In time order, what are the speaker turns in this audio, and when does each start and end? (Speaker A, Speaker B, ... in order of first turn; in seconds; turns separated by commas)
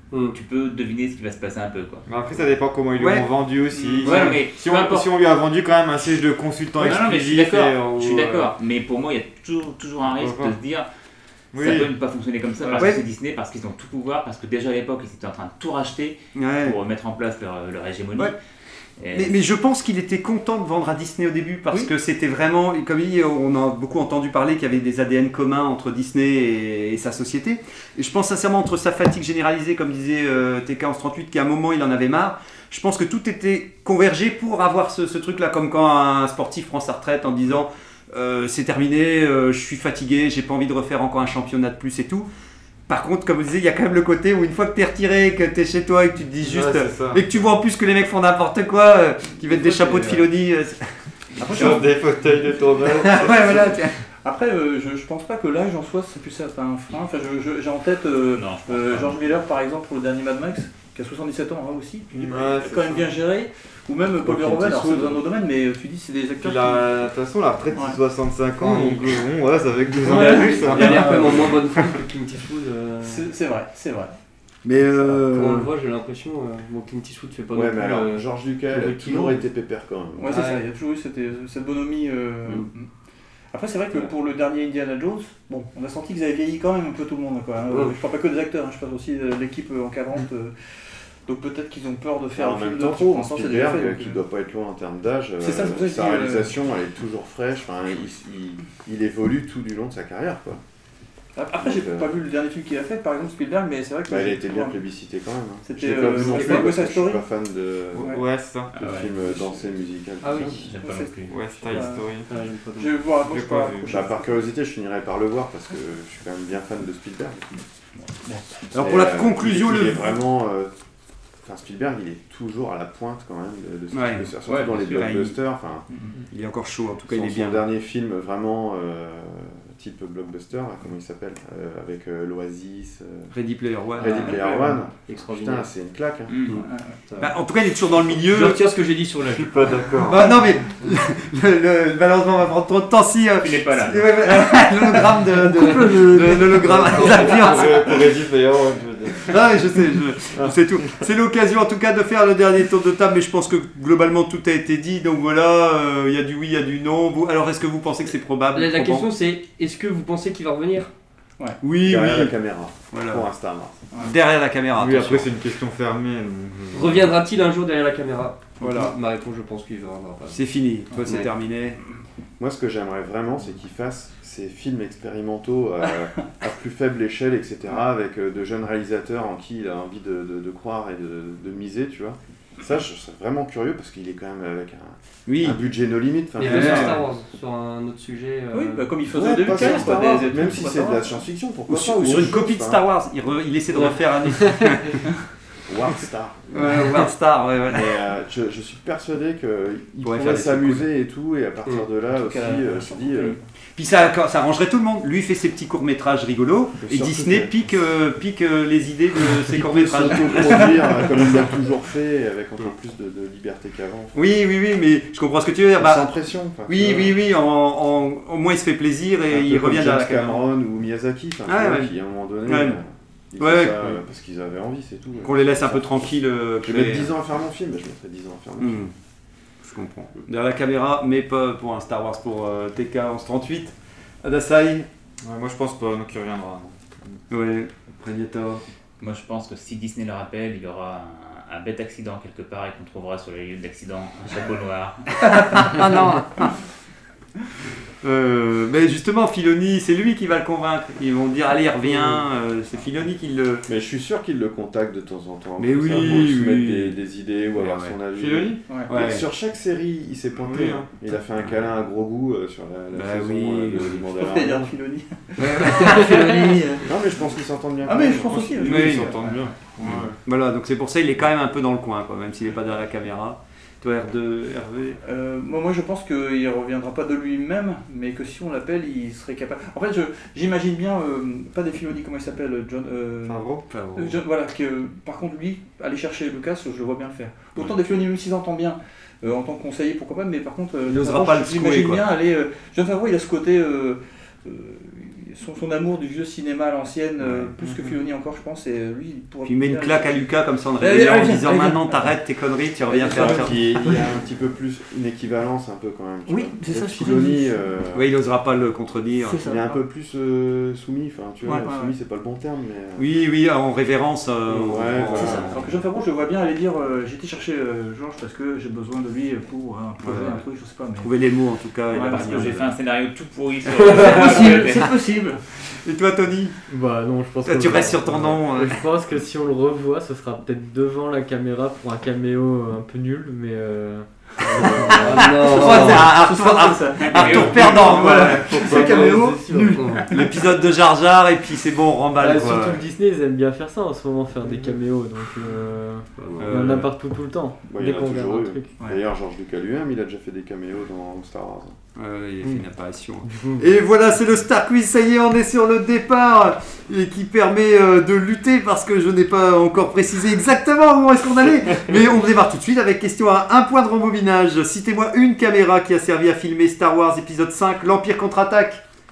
Speaker A: 0.1-0.4, Speaker B: 0.3-2.0, Speaker C: 2.1-8.5, Speaker D: 3.0-3.3, Speaker B: 3.8-5.1, Speaker B: 6.8-10.9, Speaker C: 10.1-10.6, Speaker C: 11.5-11.9, Speaker B: 11.6-18.4, Speaker E: 12.6-12.9, Speaker D: 16.4-16.8, Speaker B: 19.0-19.4, Speaker D: 19.1-42.3, Speaker D: 42.9-50.9, Speaker C: 46.4-47.2, Speaker E: 49.5-50.2, Speaker D: 51.4-51.8, Speaker E: 51.4-52.0, Speaker C: 51.4-53.8, Speaker D: 53.0-54.0, Speaker E: 54.2-67.1, Speaker B: 58.3-59.4, Speaker C: 62.1-63.1, Speaker C: 64.3-64.9, Speaker A: 64.8-65.0, Speaker C: 66.4-71.9, Speaker E: 67.7-68.0, Speaker A: 68.6-69.1, Speaker A: 70.0-73.2, Speaker E: 73.0-74.1, Speaker D: 74.7-75.7, Speaker A: 75.0-79.4, Speaker F: 77.5-80.4, Speaker E: 80.2-82.9, Speaker A: 80.3-80.6, Speaker E: 83.5-90.6, Speaker A: 87.7-88.0, Speaker E: 91.2-94.2, Speaker F: 92.4-100.6, Speaker E: 95.4-96.6, Speaker E: 101.4-104.8, Speaker F: 101.6-102.1, Speaker F: 104.1-108.2, Speaker E: 105.6-107.2, Speaker A: 105.9-106.8, Speaker E: 108.0-108.2, Speaker C: 108.0-108.7, Speaker B: 108.7-109.2, Speaker F: 108.8-110.7, Speaker A: 110.2-110.5, Speaker B: 110.4-111.8, Speaker E: 110.8-112.1, Speaker C: 111.3-112.3, Speaker A: 112.3-113.0, Speaker E: 112.8-114.4, Speaker C: 113.2-114.0, Speaker F: 113.9-117.5, Speaker D: 118.7-120.1, Speaker F: 118.8-120.7, Speaker F: 121.4-125.9, Speaker D: 123.9-124.3, Speaker B: 124.5-125.1, Speaker D: 124.9-125.4, Speaker E: 125.9-126.2, Speaker D: 126.3-127.6, Speaker F: 127.1-133.3, Speaker D: 133.3-134.4, Speaker F: 134.0-136.3, Speaker A: 134.0-135.7, Speaker B: 136.3-136.6, Speaker E: 136.5-136.9, Speaker A: 137.1-137.4, Speaker D: 137.2-138.7, Speaker A: 138.1-140.0, Speaker C: 139.3-140.3, Speaker D: 140.1-148.0, Speaker B: 143.4-144.4, Speaker E: 145.5-146.5, Speaker C: 146.3-149.4, Speaker A: 147.4-147.7, Speaker D: 149.3-159.1, Speaker C: 150.4-151.0, Speaker A: 158.5-160.9, Speaker D: 161.6-162.3, Speaker F: 161.8-163.8, Speaker D: 162.9-163.3, Speaker D: 164.0-165.3, Speaker C: 164.8-167.1, Speaker A: 166.7-170.4, Speaker D: 168.6-168.9, Speaker D: 170.3-171.8, Speaker F: 172.4-187.0, Speaker D: 185.3-185.6, Speaker A: 186.4-189.8, Speaker D: 186.4-187.0, Speaker E: 188.5-191.2, Speaker F: 189.1-192.8, Speaker D: 191.7-195.0, Speaker A: 193.7-194.7, Speaker F: 195.7-196.7, Speaker D: 196.5-198.0, Speaker F: 197.7-203.4, Speaker D: 200.0-200.9, Speaker E: 202.1-203.4, Speaker D: 203.8-211.0, Speaker F: 206.8-207.5, Speaker F: 209.5-214.2, Speaker E: 210.4-210.8, Speaker D: 214.2-216.1, Speaker F: 215.8-217.2, Speaker D: 216.7-220.4, Speaker F: 219.3-226.1, Speaker D: 221.5-221.9, Speaker D: 222.4-222.8, Speaker D: 223.4-224.0, Speaker D: 225.2-227.1, Speaker F: 226.6-228.9, Speaker D: 228.6-228.9, Speaker D: 229.6-234.9, Speaker C: 235.2-236.7, Speaker D: 237.3-238.6, Speaker B: 239.0-245.9, Speaker D: 245.2-246.5, Speaker D: 248.0-253.7, Speaker F: 253.7-264.7, Speaker D: 255.6-256.9, Speaker D: 257.6-258.0, Speaker C: 258.1-258.6, Speaker E: 258.7-258.9, Speaker D: 258.9-259.2, Speaker C: 260.4-260.9, Speaker D: 262.9-264.0, Speaker E: 264.1-266.9, Speaker D: 265.4-266.6, Speaker F: 266.8-268.7, Speaker E: 267.8-269.5, Speaker C: 268.3-270.2, Speaker D: 268.7-269.0, Speaker D: 270.2-275.0, Speaker E: 275.0-302.2, Speaker C: 283.2-283.7, Speaker D: 283.7-284.2, Speaker D: 290.9-292.1, Speaker D: 299.4-303.7, Speaker E: 302.9-304.1, Speaker F: 302.9-308.2, Speaker E: 306.3-307.6, Speaker D: 307.9-309.6, Speaker E: 309.2-309.8, Speaker F: 309.4-313.1, Speaker E: 311.4-311.9, Speaker D: 313.0-315.8, Speaker F: 314.5-315.5, Speaker E: 315.1-321.1, Speaker D: 321.0-322.7, Speaker E: 321.9-322.6, Speaker B: 321.9-325.0, Speaker E: 323.8-325.4, Speaker D: 325.7-326.6, Speaker G: 326.7-335.3, Speaker D: 327.5-328.8, Speaker A: 334.9-336.1, Speaker D: 335.1-338.9, Speaker E: 335.4-340.3, Speaker B: 337.0-338.4, Speaker G: 338.6-339.9, Speaker A: 338.8-339.1, Speaker A: 339.8-340.1, Speaker D: 340.1-342.8, Speaker G: 342.2-348.7, Speaker A: 346.2-346.9, Speaker C: 346.4-346.8, Speaker F: 347.7-351.8, Speaker D: 351.9-368.8